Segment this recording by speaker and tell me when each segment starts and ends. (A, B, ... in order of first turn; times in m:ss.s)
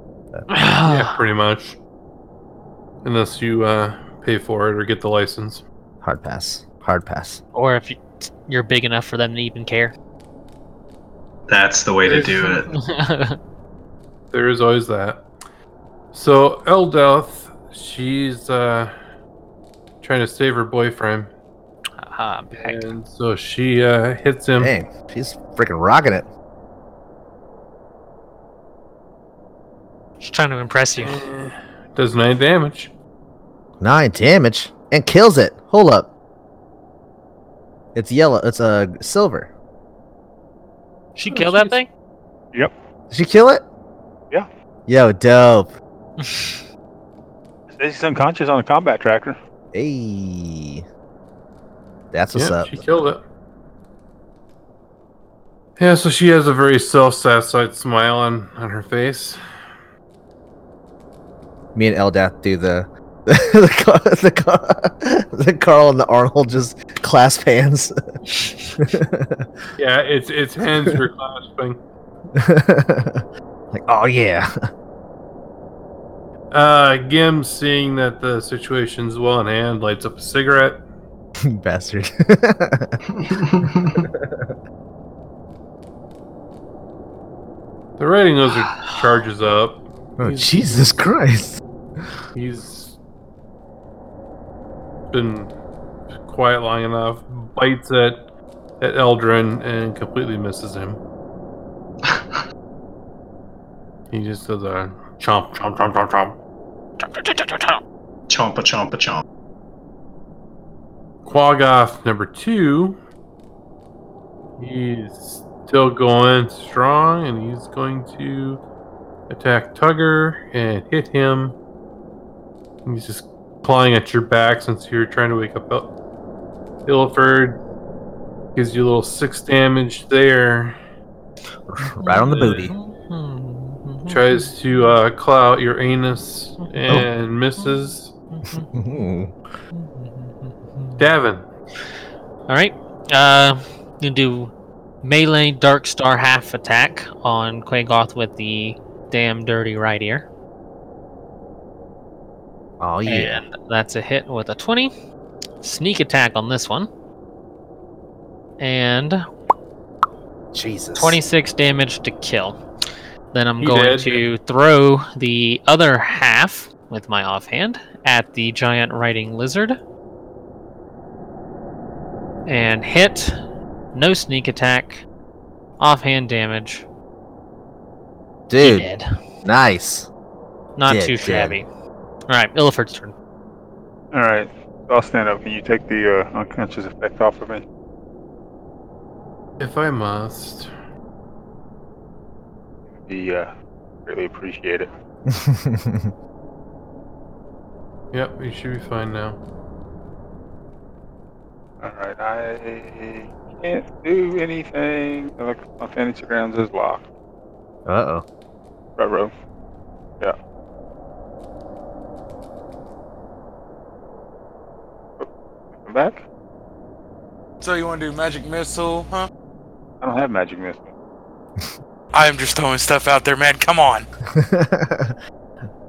0:00.5-0:01.2 A
0:00.8-0:01.8 B
0:03.0-0:05.6 B
0:06.0-0:07.4 C
0:07.5-0:09.9 A
0:11.5-0:12.7 D
0:12.0-0:12.5 B
0:12.2-0:13.4 A
0:14.3-0:15.2 B
0:16.1-0:18.9 B
0:20.0-0:21.3 B
0:22.0-0:22.9 A
0:22.5-0:24.7 B
0:24.6-0:26.3 C
0:30.2-0:31.2 A
0:31.0-0:32.9 B
0:33.8-0:36.1 C
0:37.9-0:39.5 C
0:41.2-0:41.9 A
0:41.3-0:41.8 B
0:43.1-0:43.6 C
0:44.9-0:45.7 C
0:46.2-0:46.6 A
0:47.7-0:49.4 E
0:49.7-0:50.8 C
0:52.1-0:52.8 C
0:52.3-0:53.2 B
0:55.8-0:59.4 B
1:01.7-1:07.9 C
1:08.3-1:08.6 A
1:08.8-1:09.5 C
1:09.8-1:11.8 B
1:12.3-1:14.5 C
1:16.5-1:20.8 B
1:21.4-1:24.6 C
1:23.1-1:24.1 D
1:28.0-1:31.0 B
1:28.6-1:29.0 A
1:30.2-1:31.6 C
1:32.3-1:33.0 B
1:35.1-1:35.5 B
1:36.2-1:38.2 B
1:38.8-1:41.0 B
1:42.0-1:42.4 D
1:44.1-1:46.4 B
1:47.0-1:47.8 A
1:48.3-1:49.2 D
1:51.2-1:53.0 B
1:54.6-1:58.6 B
1:59.3-2:01.6 B
2:02.8-2:05.9 B
2:06.8-2:07.6 B
2:08.5-2:10.8 B
2:11.7-2:12.7 C
2:12.0-2:14.9 A
2:12.3-2:12.7 B
2:14.1-2:18.1 B
2:16.6-2:16.9 A
2:17.6-2:19.0 A
2:18.7-2:19.4 C
2:19.7-2:21.1 A
2:21.0-2:21.4 B
2:22.5-2:24.5 A
2:25.0-2:30.3 A
2:32.8-2:33.4 C
2:33.0-2:34.9 A
2:35.6-2:36.9 A
2:38.6-2:39.2 A
2:40.5-2:41.2 C
2:40.9-2:42.6 A
2:43.3-2:49.8 A
2:43.6-2:44.2 B
2:52.4-2:53.3 A
2:53.9-2:55.0 A
2:55.8-2:56.8 A
2:58.5-2:58.9 C
2:58.6-2:59.1 A
2:59.4-3:00.1 C
3:00.8-3:01.6 A
3:00.9-3:01.6 C
3:02.3-3:03.1 A
3:04.1-3:07.6 E
3:09.6-3:10.7 B
3:12.9-3:13.5 E
3:14.0-3:14.9 E
3:15.3-3:16.1 C
3:18.1-3:19.4 B
3:21.8-3:27.1 E
3:27.8-3:28.2 C
3:29.0-3:29.3 E
3:35.8-3:36.2 E
3:37.6-3:39.3 F
3:40.0-3:40.9 E
3:42.1-3:44.1 F
3:44.3-3:45.2 C